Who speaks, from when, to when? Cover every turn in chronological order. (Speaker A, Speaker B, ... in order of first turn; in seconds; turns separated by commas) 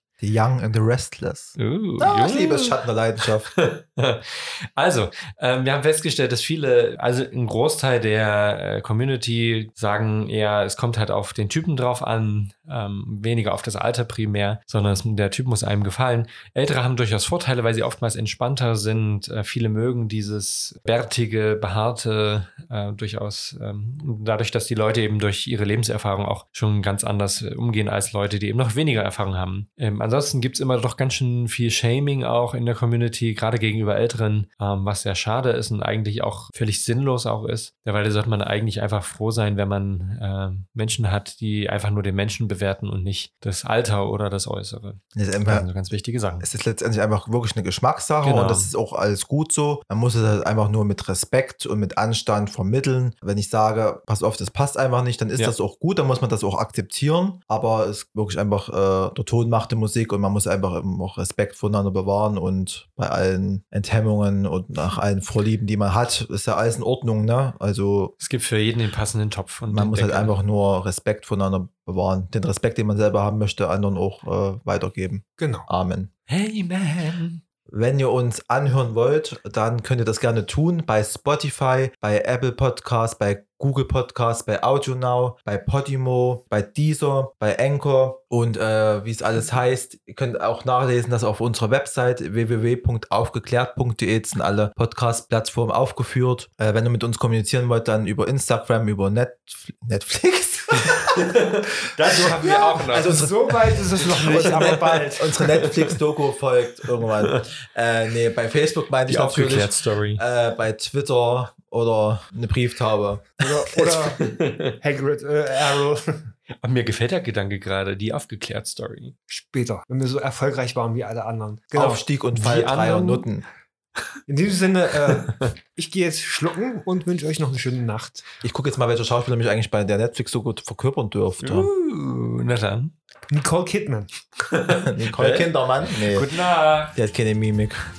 Speaker A: 0.2-3.5, Speaker B: 1.6-46.5, Speaker A: 45.1-45.6, Speaker A: 46.4-68.1, Speaker B: 48.2-48.7, Speaker B: 68.2-70.3, Speaker A: 69.7-76.1, Speaker C: 75.4-75.7, Speaker B: 76.3-77.4, Speaker A: 77.7-101.3, Speaker B: 100.7-105.0, Speaker C: 102.1-105.4, Speaker A: 102.9-103.3, Speaker A: 104.4-113.3, Speaker B: 105.6-106.0, Speaker B: 109.1-110.2, Speaker C: 113.4-114.2, Speaker B: 113.7-114.8, Speaker C: 114.8-116.3, Speaker B: 116.6-119.2, Speaker C: 119.3-122.0, Speaker A: 121.7-123.5, Speaker B: 122.3-123.3, Speaker C: 124.3-128.2, Speaker B: 125.1-125.5, Speaker A: 128.4-131.7, Speaker B: 131.4-132.9, Speaker C: 133.3-134.1, Speaker B: 134.4-135.5, Speaker A: 134.7-136.3, Speaker B: 136.1-137.0, Speaker A: 136.9-137.8